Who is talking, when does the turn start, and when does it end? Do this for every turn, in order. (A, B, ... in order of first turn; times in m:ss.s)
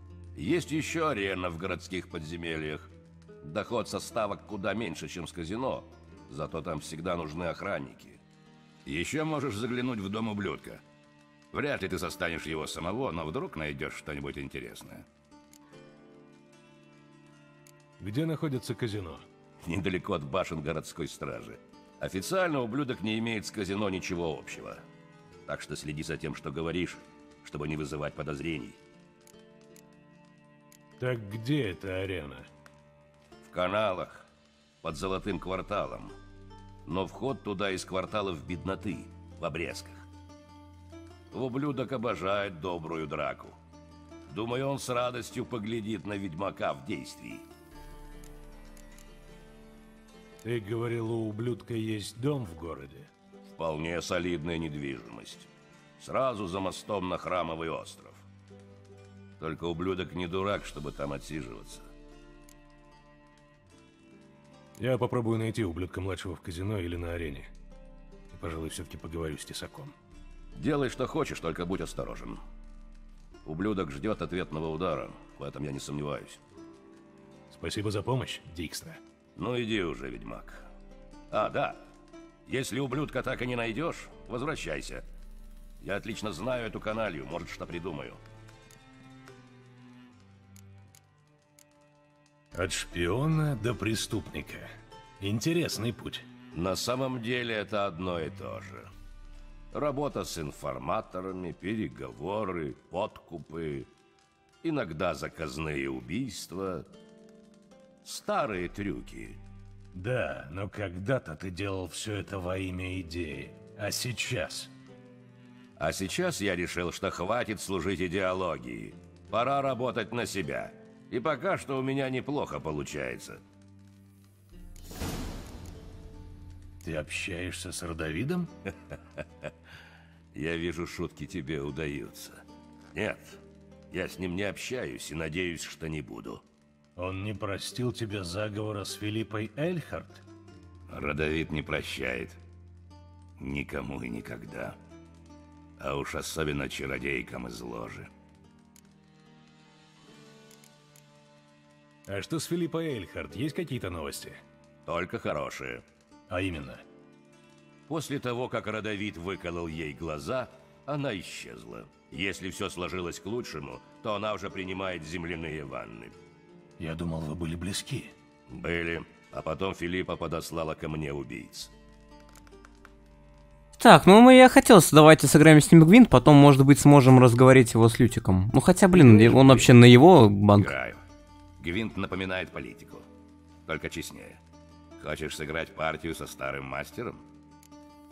0:00.3-0:02.9 A
0:03.4-0:08.2 A
0:08.8-0:10.8 A
0:11.5-0:15.0 A
0:18.0-0:19.2 B
0:19.6-0:24.8 A
0:25.5-0:28.8 A
0:31.0-0:32.5 B
0:33.4-0:34.3 A
0:34.8-0:36.1 A
0:36.9-0:40.1 A
0:41.3-0:43.6 A
0:44.3-0:47.4 A
0:50.4-0:53.1 B
0:53.6-0:55.5 A
0:56.0-0:58.2 A
0:59.4-1:01.9 A
1:04.8-1:07.5 B
1:08.3-1:09.9 B
1:10.6-1:12.4 A
1:13.4-1:16.4 A
1:17.5-1:19.0 B
1:19.4-1:20.6 A
1:21.3-1:21.8 A
1:22.5-1:25.0 A
1:25.8-1:28.2 A
1:32.5-1:36.3 B
1:36.5-1:38.9 A
1:39.7-1:43.9 A
1:44.6-1:46.9 A
1:48.0-1:49.4 A
1:49.9-1:54.7 B
1:55.8-2:03.4 A
2:06.8-2:08.5 B
2:10.3-2:12.4 A
2:12.9-2:13.4 A
2:13.9-2:16.4 A
2:17.0-2:20.2 B
2:20.9-2:22.4 A
2:23.4-2:24.8 A
2:25.8-2:28.1 A
2:32.1-2:34.4 B
2:34.8-2:35.8 A
2:36.3-2:36.8 B
2:37.9-2:46.1 A
2:46.8-2:48.1 B
2:48.5-2:51.7 A
2:53.8-3:00.7 C
2:59.0-2:59.7 A
3:00.5-3:01.0 A
3:01.6-3:03.0 A
3:03.7-3:04.4 A
3:05.0-3:07.2 A